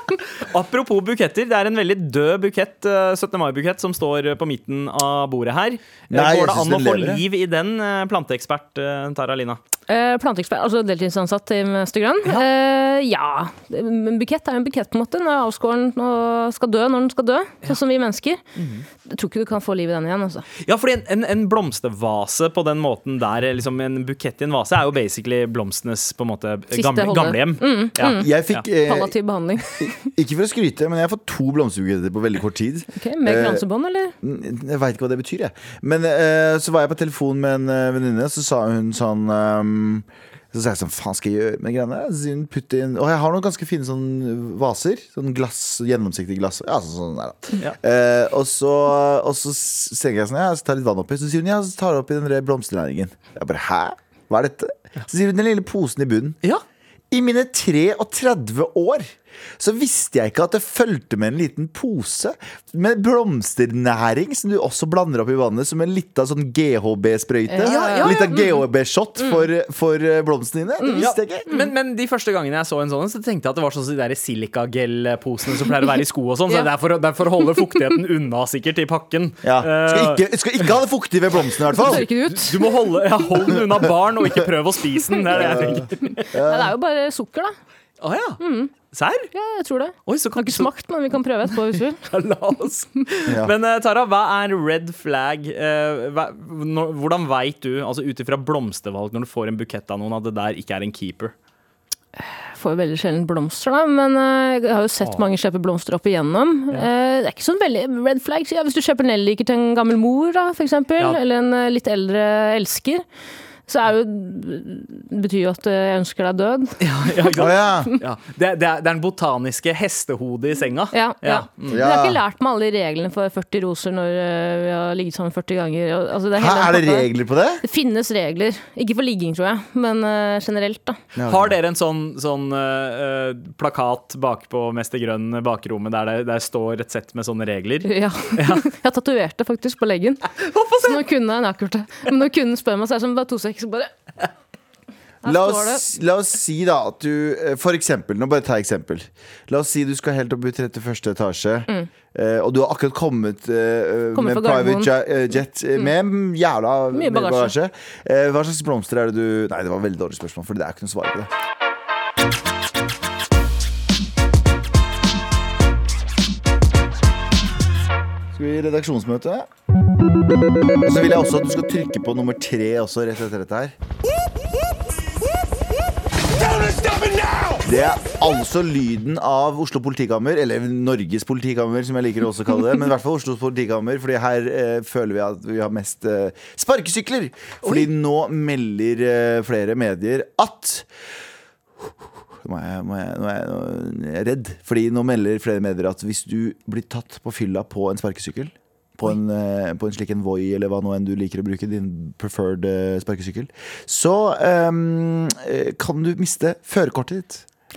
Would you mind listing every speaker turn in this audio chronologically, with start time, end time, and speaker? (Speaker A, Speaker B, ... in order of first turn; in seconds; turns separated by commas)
Speaker A: 0.4-9.6, Speaker B: 6.1-7.2, Speaker C: 9.9-18.4, Speaker A: 18.6-18.8, Speaker C: 19.1-20.5, Speaker A: 20.6-28.6, Speaker C: 26.7-29.9, Speaker B: 28.1-29.1, Speaker B: 29.8-33.6, Speaker C: 32.9-34.1, Speaker B: 34.2-56.4, Speaker B: 57.1-71.5, Speaker C: 67.5-68.6, Speaker A: 67.6-68.2, Speaker C: 70.8-71.7, Speaker A: 71.0-80.2, Speaker B: 79.4-82.1, Speaker C: 81.8-82.7, Speaker A: 81.9-86.3, Speaker B: 83.5-83.8, Speaker B: 85.3-86.7, Speaker C: 86.0-87.5, Speaker A: 88.0-88.4, Speaker C: 88.4-88.7, Speaker A: 88.9-89.3, Speaker C: 89.3-92.0, Speaker A: 90.1-90.7, Speaker A: 91.5-101.3, Speaker B: 93.3-93.5, Speaker C: 102.2-113.0, Speaker C: 113.7-117.5, Speaker A: 116.8-121.8, Speaker B: 117.3-117.9, Speaker C: 120.9-127.1, Speaker B: 121.7-122.2, Speaker B: 126.4-127.6, Speaker C: 127.6-131.0, Speaker B: 131.1-131.6, Speaker A: 131.2-138.6, Speaker C: 137.8-143.9, Speaker A: 140.4-141.0, Speaker B: 145.2-161.3, Speaker C: 145.2-145.8, Speaker C: 154.1-154.9, Speaker C: 156.9-157.5, Speaker B: 168.3-169.5, Speaker B: 170.8-173.7, Speaker B: 177.6-190.9, Speaker B: 192.4-207.4